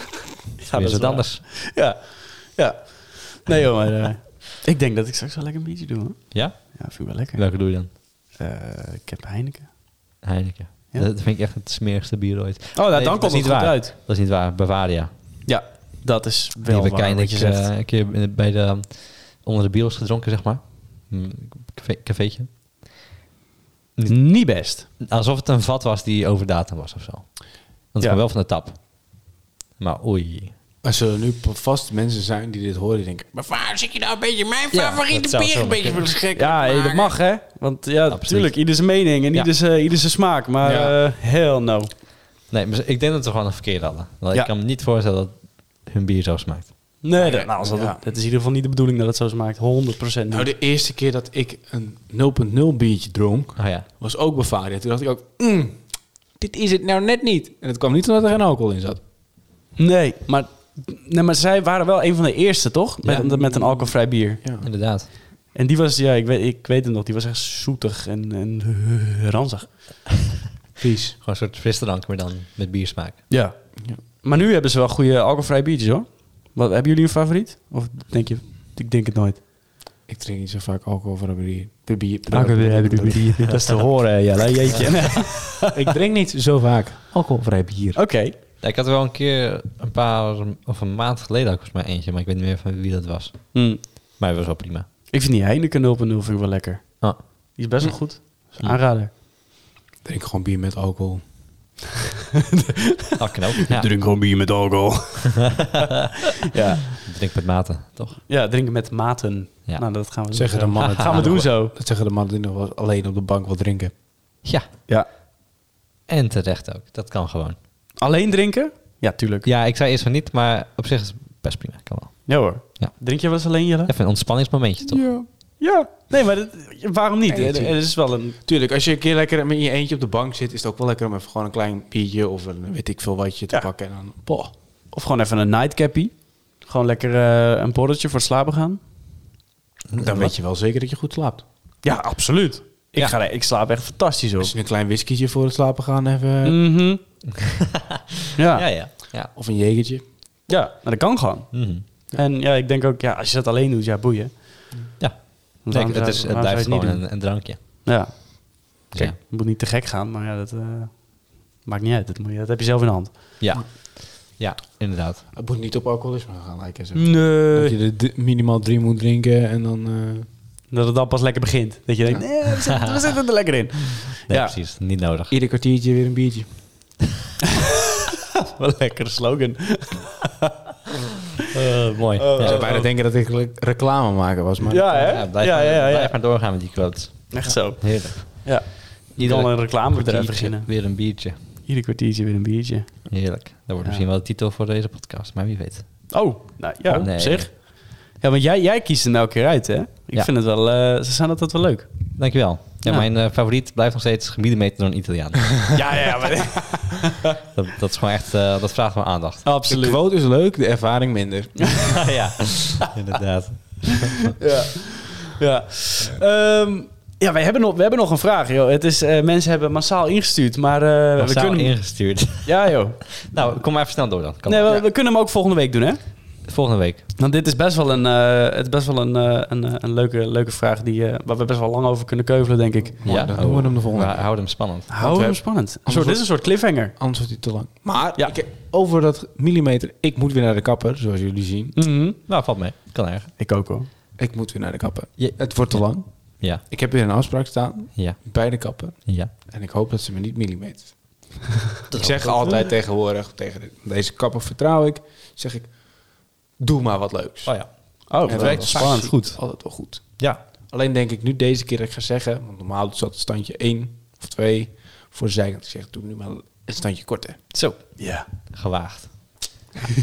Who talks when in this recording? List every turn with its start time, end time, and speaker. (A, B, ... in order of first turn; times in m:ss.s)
0:00.6-0:09.7 A
0:00.7-0:01.4 B
0:06.3-0:07.9 B
0:10.2-0:15.1 B
0:12.7-0:13.9 A
0:15.4-0:17.7 A
0:16.6-0:22.8 B
0:24.0-0:30.5 B
0:24.1-0:24.9 A
0:30.8-0:37.1 C
0:34.7-0:36.1 B
0:36.3-0:41.9 A
0:38.1-0:39.5 B
0:40.6-0:41.0 C
0:42.5-0:47.0 B
0:47.0-0:50.5 A
0:47.2-0:48.0 C
0:50.3-0:59.0 C
0:53.6-0:53.9 B
0:59.8-1:04.4 A
1:03.0-1:04.7 C
1:04.6-1:05.1 B
1:05.5-1:10.0 A
1:10.8-1:11.2 C
1:11.2-1:13.3 B
1:13.3-1:19.4 A
1:20.1-1:23.4 C
1:22.3-1:25.8 A
1:23.5-1:23.8 B
1:25.7-1:28.0 C
1:27.9-1:28.3 A
1:28.6-1:34.9 B
1:33.5-1:33.8 A
1:35.1-1:39.1 A
1:40.0-1:41.2 C
1:42.5-1:45.6 A
1:43.2-1:43.9 B
1:46.4-1:47.0 A
1:46.9-1:48.2 B
1:48.3-1:51.7 A
1:50.3-1:54.0 C
1:50.8-1:51.4 B
1:56.1-1:57.6 B
1:58.0-1:59.5 A
1:59.4-2:05.2 B
2:02.2-2:03.9 A
2:05.0-2:08.4 A
2:07.3-2:14.5 C
2:14.9-2:18.8 A
2:19.9-2:20.3 B
2:20.0-2:21.4 C
2:21.8-2:24.5 A
2:24.4-2:26.6 C
2:26.4-2:27.0 A
2:27.4-2:29.3 B
2:28.4-2:28.6 A
2:29.3-2:30.0 C
2:30.5-2:34.7 A
2:31.5-2:31.8 B
2:35.0-2:38.2 B
2:35.6-2:43.2 A
2:43.4-2:45.2 B
2:45.3-2:50.3 C
2:46.9-2:47.7 A
2:50.7-2:54.5 A
2:54.3-2:55.3 B
2:55.3-2:56.6 C
2:58.6-3:00.5 A
3:01.5-3:02.7 B
3:02.2-3:02.9 A
3:02.4-3:05.2 C
3:04.7-3:06.2 A
3:05.1-3:11.4 B
3:07.3-3:14.0 A
3:13.1-3:16.3 B
3:16.1-3:22.2 A
3:16.9-3:17.5 B
3:22.2-3:26.2 B
3:25.7-3:27.2 A
3:27.4-3:29.4 B
3:29.4-3:30.0 A
3:29.6-3:32.3 C
3:32.0-3:34.3 B
3:34.4-3:43.2 A
3:41.2-3:44.8 B
3:44.4-3:46.1 A
3:46.4-3:47.1 B
3:47.2-3:53.0 A
3:53.0-4:01.8 C
3:53.0-3:54.9 B
3:54.9-3:56.9 A
4:01.7-4:02.2 A
4:02.3-4:03.3 B
4:03.4-4:03.9 A
4:04.2-4:10.9 C
4:05.2-4:06.6 B
4:08.0-4:08.4 B
4:09.0-4:09.3 B
4:11.9-4:12.7 B
4:11.9-4:15.8 C
4:16.6-4:27.4 C
4:17.4-4:19.6 B
4:18.1-4:19.1 A
4:27.5-4:29.4 B
4:28.0-4:28.3 A